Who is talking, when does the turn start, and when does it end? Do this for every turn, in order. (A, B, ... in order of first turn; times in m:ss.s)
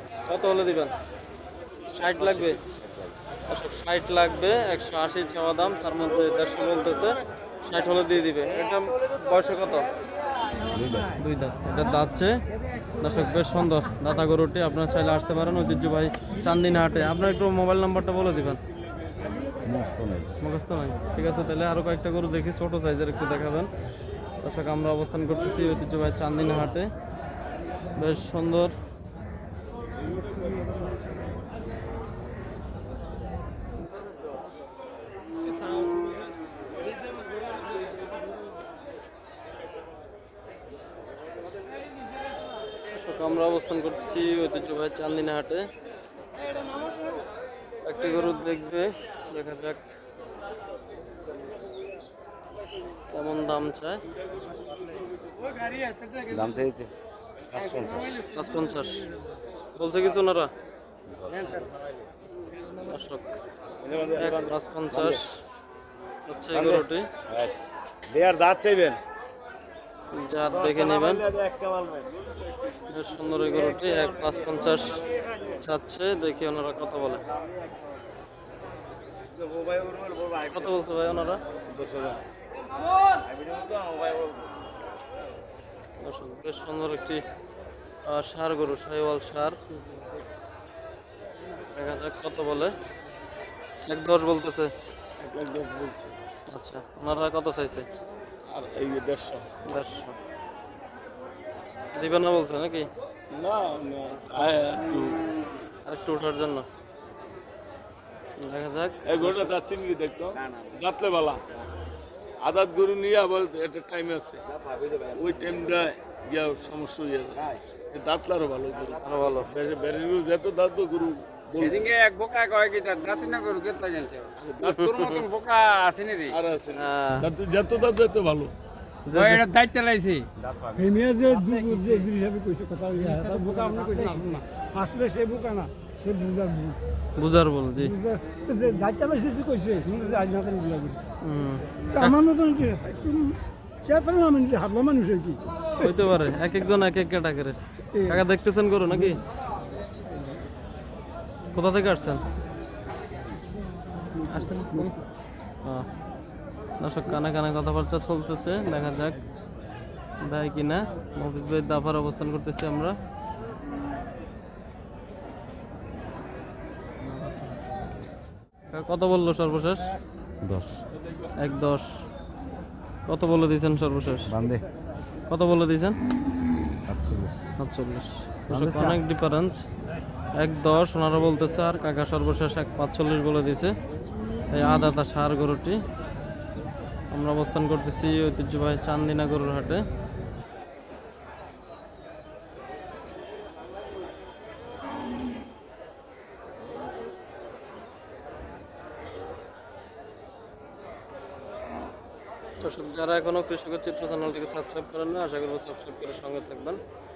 0:00.3-0:00.9 A
0:01.9-0:02.6 A
0:02.1-0:03.2 B
0:03.5-0:09.9 A
0:10.7-0:11.2 B
0:11.2-0:12.4 A
0:13.0-0:18.6 A
0:19.6-0:20.3 B
0:20.4-0:23.7 A
0:24.4-0:26.9 A
0:28.0-0:28.7 A
0:42.9-0:45.7 A
0:47.8-0:49.8 A
0:53.1-0:54.0 A
0:56.2-0:56.9 B
0:57.5-0:58.2 B
0:58.3-0:59.1 A
0:59.8-1:00.5 A
1:01.1-1:01.8 B
1:02.8-1:03.3 A
1:03.8-1:05.2 B
1:04.1-1:05.3 A
1:06.3-1:07.1 A
1:06.5-1:09.0 B
1:10.1-1:11.2 A
1:10.5-1:12.1 B
1:12.9-1:15.0 A
1:15.5-1:17.2 A
1:19.4-1:20.7 B
1:20.5-1:21.4 A
1:21.7-1:22.2 C
1:23.3-1:24.4 B
1:26.0-1:27.2 A
1:28.0-1:29.6 A
1:31.7-1:32.7 A
1:33.9-1:34.7 A
1:35.2-1:36.2 C
1:36.5-1:37.9 A
1:38.5-1:39.5 C
1:39.7-1:40.2 A
1:42.0-1:42.9 A
1:43.3-1:45.2 C
1:45.9-1:46.7 A
1:48.4-1:49.5 A
1:49.0-1:51.4 C
1:50.4-1:50.8 B
1:52.4-1:54.4 C
1:54.5-1:55.8 B
1:55.2-2:01.9 C
1:59.0-1:59.5 A
2:01.6-2:06.4 D
2:04.4-2:05.2 C
2:06.3-2:08.5 C
2:06.8-2:07.3 A
2:09.1-2:09.4 A
2:09.1-2:10.3 D
2:10.4-2:11.0 B
2:10.8-2:16.8 E
2:11.4-2:12.1 D
2:13.0-2:14.4 D
2:17.2-2:18.0 A
2:17.8-2:21.0 E
2:21.2-2:22.2 A
2:21.9-2:25.5 E
2:25.8-2:29.2 A
2:27.9-2:28.2 E
2:31.5-2:32.2 A
2:34.3-2:35.0 A
2:36.8-2:39.2 A
2:40.2-2:43.0 A
2:48.7-2:49.9 A
2:50.4-2:50.8 B
2:51.4-2:52.0 A
2:53.1-2:54.3 A
2:54.3-2:54.6 B
2:55.3-2:56.0 A
2:56.9-2:57.4 B
2:57.6-2:59.6 A
2:58.5-2:59.0 B
3:00.4-3:03.7 A
3:04.5-3:05.8 A
3:07.1-3:09.8 A
3:22.6-3:26.8 A